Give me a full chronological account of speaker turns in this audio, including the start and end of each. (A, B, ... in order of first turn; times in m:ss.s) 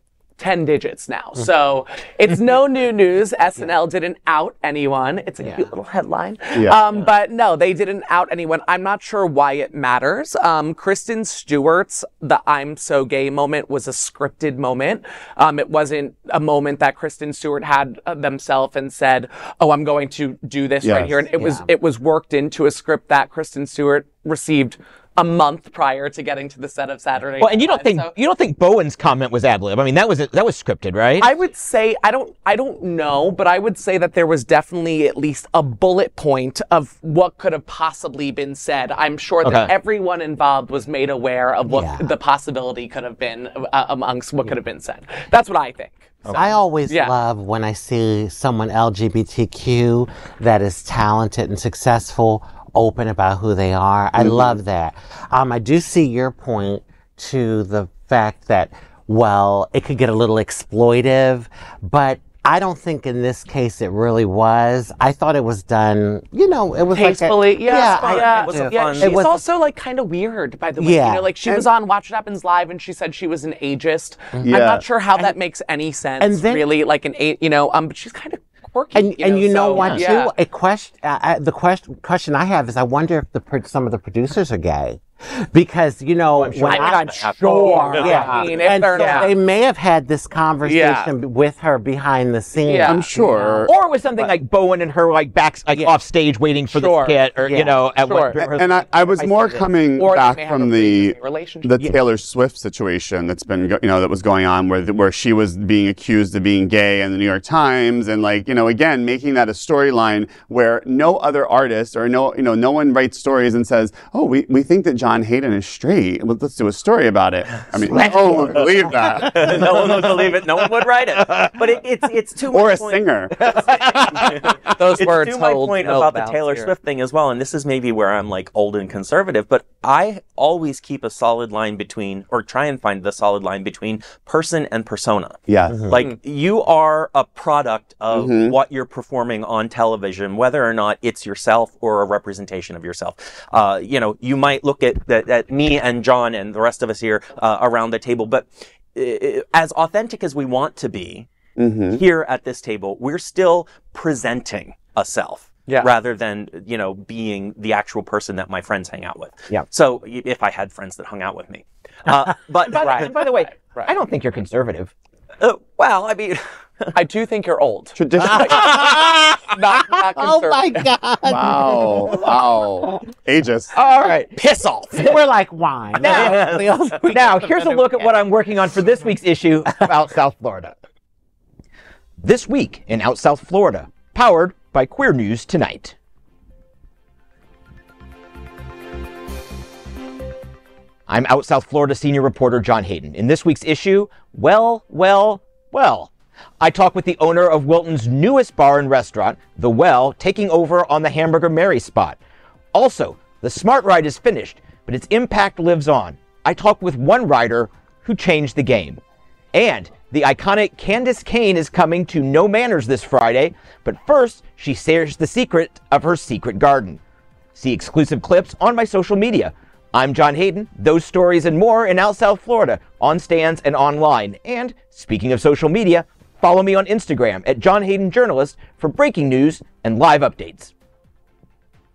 0:00.4-0:28.1 A
0:20.8-0:21.2 B
0:21.4-0:21.6 C
0:27.4-0:31.3 D
0:31.2-0:47.1 A
0:39.4-0:39.7 D
0:41.7-0:42.1 C
0:46.3-1:09.4 C
0:54.2-0:54.6 B
1:06.9-1:20.3 A
1:07.7-1:09.2 E
1:10.8-1:11.6 C
1:14.4-1:14.8 B
1:16.2-1:16.7 C
1:18.9-1:33.7 C
1:26.4-1:29.3 D
1:26.6-1:27.3 E
1:27.4-1:29.3 A
1:30.6-1:31.1 A
1:32.6-1:33.0 A
1:32.8-1:34.3 B
1:33.6-1:39.7 D
1:36.7-1:37.2 A
1:37.4-1:37.8 C
1:38.0-1:38.4 A
1:38.4-1:59.6 B
1:39.9-1:41.7 A
1:57.9-1:59.9 D
1:59.3-2:15.4 E
2:01.2-2:01.5 D
2:02.5-2:04.6 B
2:03.5-2:03.7 D
2:04.8-2:06.7 A
2:15.5-2:15.9 B
2:15.7-2:15.9 C
2:15.9-2:31.3 E
2:18.1-2:18.5 B
2:31.6-2:32.0 B
2:31.9-2:43.0 E
2:42.6-2:44.9 D
2:42.8-2:43.9 A
2:45.4-2:46.9 E
2:46.9-2:48.8 A
2:48.0-2:49.2 B
2:48.4-2:49.4 C
2:49.5-2:50.9 A
2:50.1-2:52.2 C
2:51.2-2:53.7 B
2:53.7-2:55.2 D
2:54.9-2:57.6 C
2:56.0-2:56.5 D
2:56.0-2:56.8 E
2:57.1-3:00.7 D
3:02.2-3:05.9 D
3:11.1-3:22.2 D
3:22.7-3:29.0 D
3:29.5-3:37.0 D
3:37.5-3:50.7 D